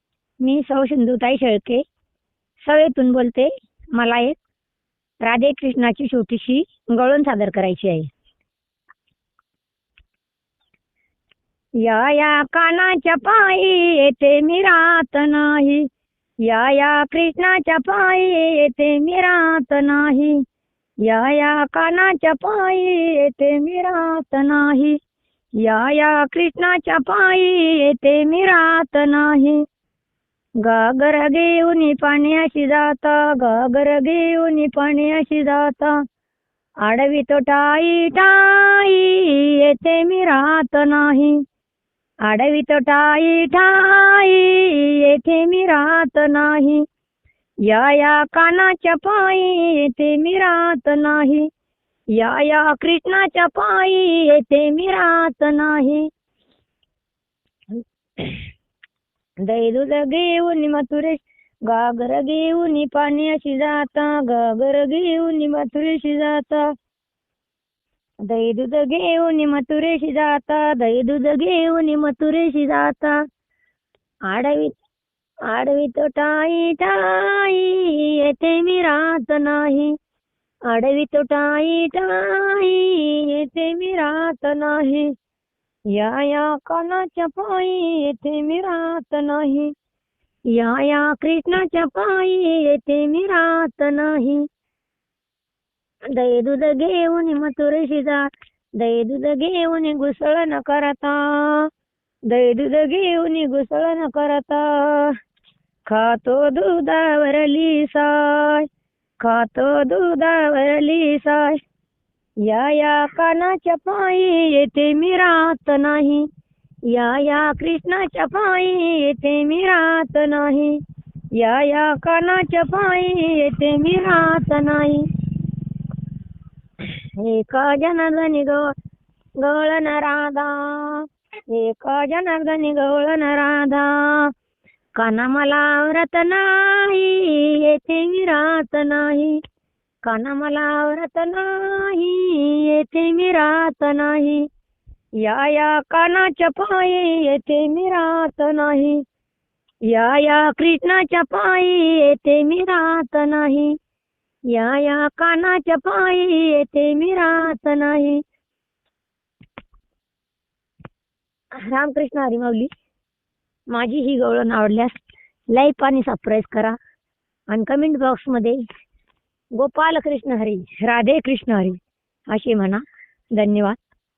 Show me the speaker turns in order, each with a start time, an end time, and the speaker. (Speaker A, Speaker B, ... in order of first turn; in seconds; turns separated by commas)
Speaker A: 0.4-1.8, Speaker A: 2.6-4.4, Speaker A: 5.2-8.1, Speaker A: 11.8-15.9, Speaker A: 16.4-20.4, Speaker A: 21.1-25.0, Speaker A: 25.6-29.6, Speaker A: 30.6-36.0, Speaker A: 36.8-41.4, Speaker A: 42.2-46.9, Speaker A: 47.7-51.5, Speaker A: 52.1-56.1, Speaker A: 58.2-58.5, Speaker A: 59.4-66.7, Speaker A: 68.2-73.2, Speaker A: 74.3-74.8, Speaker A: 75.5-80.0, Speaker A: 80.7-85.1, Speaker A: 85.9-89.7, Speaker A: 90.5-94.5, Speaker A: 96.1-101.7, Speaker A: 102.3-105.2, Speaker A: 105.9-108.7, Speaker A: 109.2-111.6, Speaker A: 112.4-116.3, Speaker A: 116.9-120.8, Speaker A: 121.3-125.0, Speaker A: 127.1-128.7, Speaker A: 129.4-134.3, Speaker A: 134.9-139.4, Speaker A: 140.1-144.5, Speaker A: 145.2-149.0, Speaker A: 149.9-153.8, Speaker A: 154.5-158.2, Speaker A: 161.5-162.7, Speaker A: 163.7-166.8, Speaker A: 167.5-168.6, Speaker A: 169.6-171.8, Speaker A: 172.3-172.8, Speaker A: 173.3-173.8